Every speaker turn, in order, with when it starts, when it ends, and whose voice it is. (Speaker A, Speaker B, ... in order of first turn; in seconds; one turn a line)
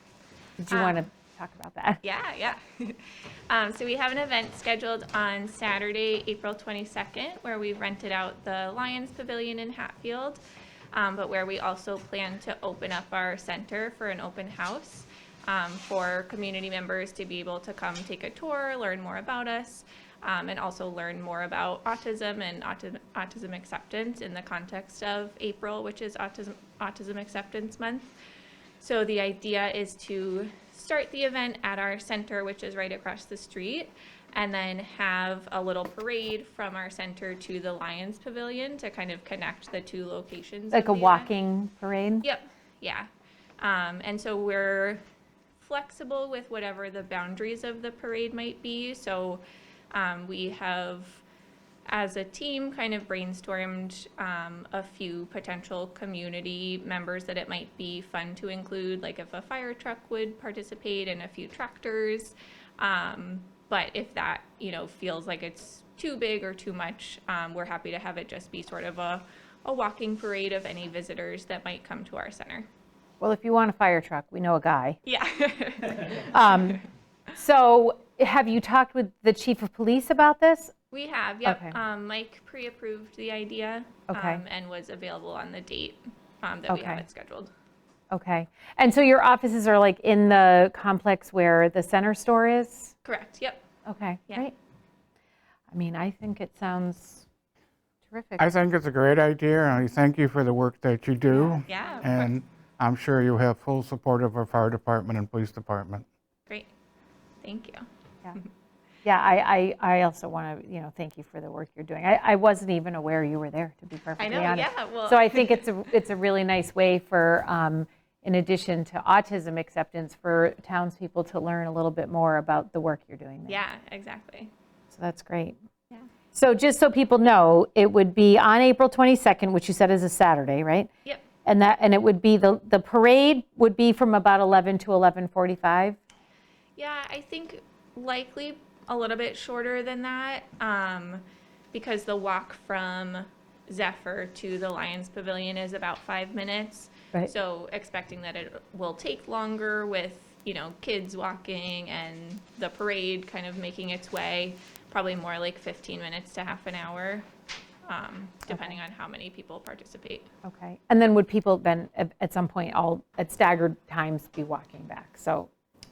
Speaker A: 0.6-2.0
Speaker B: 0.7-1.0
Speaker B: 2.0-10.4
Speaker B: 10.9-28.1
Speaker B: 28.8-41.3
Speaker A: 40.7-42.3
Speaker B: 42.2-43.1
Speaker B: 43.6-45.0
Speaker B: 45.6-51.2
Speaker B: 51.9-72.7
Speaker A: 73.2-75.0
Speaker B: 75.1-76.8
Speaker A: 76.1-76.8
Speaker A: 77.3-80.7
Speaker B: 80.9-87.5
Speaker A: 81.5-81.8
Speaker A: 84.1-84.4
Speaker A: 86.7-87.1
Speaker A: 88.1-92.9
Speaker B: 93.0-93.6
Speaker A: 93.9-94.5
Speaker A: 95.7-97.2
Speaker A: 98.1-98.5
Speaker C: 98.4-106.1
Speaker A: 101.3-101.6
Speaker B: 101.7-102.3
Speaker B: 107.4-107.8
Speaker A: 109.0-123.6
Speaker B: 114.2-115.7
Speaker B: 123.5-124.5
Speaker A: 124.9-125.5
Speaker A: 126.3-130.9
Speaker A: 131.4-136.0
Speaker B: 136.8-157.3
Speaker B: 157.9-160.3
Speaker A: 158.5-158.8
Speaker A: 160.4-165.5